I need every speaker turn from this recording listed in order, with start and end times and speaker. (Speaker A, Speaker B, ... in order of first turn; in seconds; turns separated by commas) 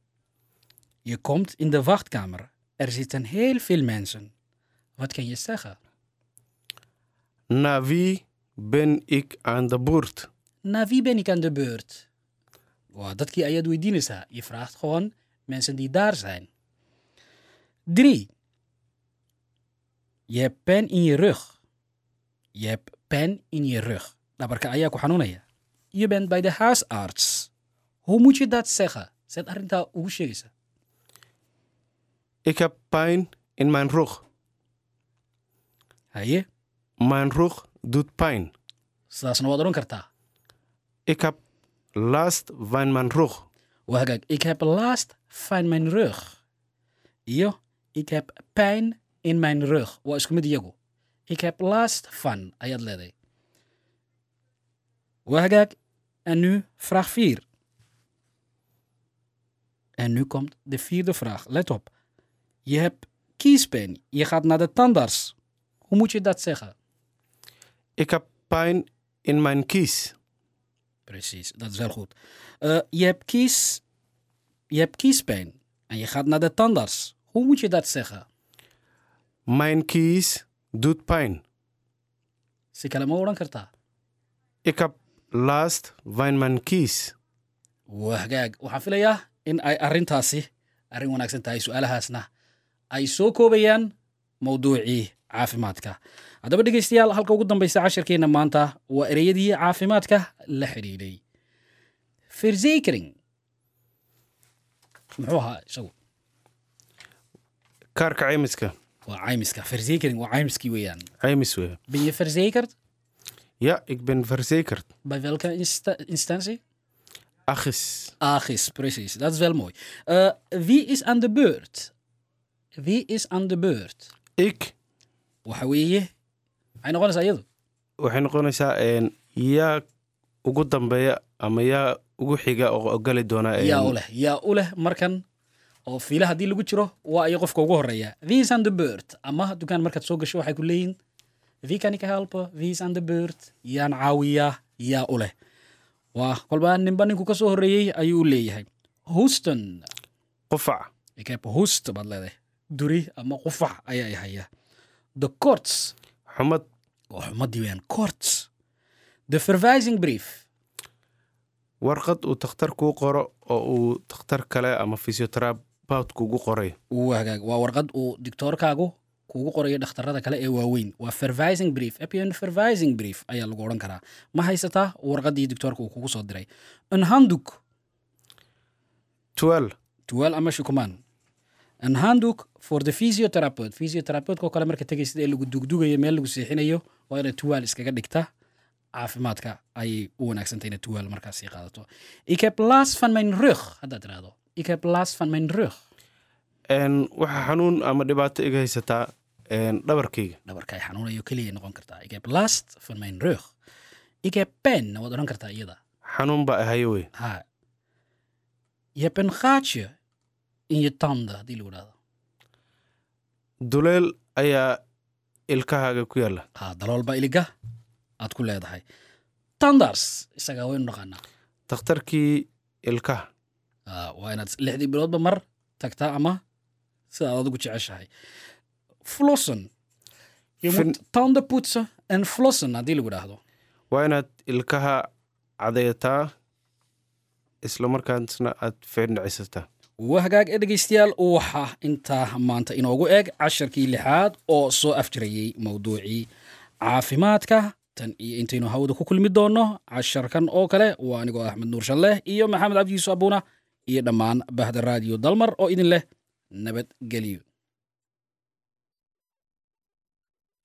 Speaker A: 1.0-4.3, Speaker A: 5.0-5.8, Speaker B: 7.5-10.3, Speaker A: 10.6-12.1, Speaker A: 12.9-16.5, Speaker A: 17.9-18.3, Speaker A: 20.3-21.5, Speaker A: 22.6-27.5, Speaker A: 28.0-30.5, Speaker B: 32.4-34.2, Speaker A: 36.1-36.5, Speaker B: 37.0-38.5, Speaker A: 39.1-40.1, Speaker B: 41.1-41.4, Speaker B: 42.0-43.5, Speaker A: 43.9-46.3, Speaker A: 47.3-50.7, Speaker A: 51.3-53.1, Speaker A: 55.2-57.4, Speaker A: 60.0-61.9, Speaker A: 62.6-65.3, Speaker A: 65.9-66.7, Speaker B: 68.0-70.1, Speaker A: 71.1-73.8, Speaker A: 74.7-78.2, Speaker B: 79.5-81.4, Speaker A: 82.7-83.7, Speaker B: 84.6-87.2, Speaker A: 87.9-92.3, Speaker A: 92.9-101.2, Speaker A: 102.3-103.1, Speaker A: 105.2-105.9, Speaker B: 107.9-108.7, Speaker A: 109.1-111.1, Speaker B: 111.2-111.8, Speaker A: 111.9-112.7, Speaker B: 113.6-114.9, Speaker A: 115.0-116.6, Speaker B: 117.5-118.1, Speaker A: 118.2-121.9, Speaker A: 122.8-124.1, Speaker B: 124.4-124.7, Speaker A: 125.5-126.1, Speaker A: 126.8-127.4, Speaker B: 128.0-129.8, Speaker B: 130.4-133.9, Speaker A: 133.6-135.2, Speaker A: 135.9-141.0, Speaker A: 141.6-145.3, Speaker A: 146.1-149.9, Speaker B: 150.5-150.9, Speaker A: 151.2-154.5, Speaker A: 155.2-155.9, Speaker B: 156.3-156.7, Speaker A: 157.1-158.5, Speaker A: 159.3-160.4, Speaker B: 161.8-166.8, Speaker A: 166.9-177.6, Speaker B: 179.3-179.7, Speaker A: 180.1-181.0, Speaker A: 181.8-188.3, Speaker A: 188.9-195.8, Speaker B: 196.7-200.4, Speaker A: 200.5-203.5, Speaker A: 204.2-205.8, Speaker B: 206.1-207.1, Speaker A: 207.1-207.4, Speaker A: 208.9-209.9, Speaker A: 210.7-211.9, Speaker B: 213.6-214.8, Speaker B: 215.5-216.4, Speaker A: 216.6-217.5, Speaker A: 218.2-218.8, Speaker A: 219.6-221.2, Speaker B: 221.7-223.3, Speaker A: 223.9-226.4, Speaker A: 227.1-228.1, Speaker A: 229.0-229.7, Speaker A: 230.6-233.4, Speaker B: 230.7-231.0, Speaker B: 233.9-235.1, Speaker B: 235.6-236.3, Speaker B: 237.6-239.7, Speaker A: 240.0-246.3, Speaker A: 246.8-257.4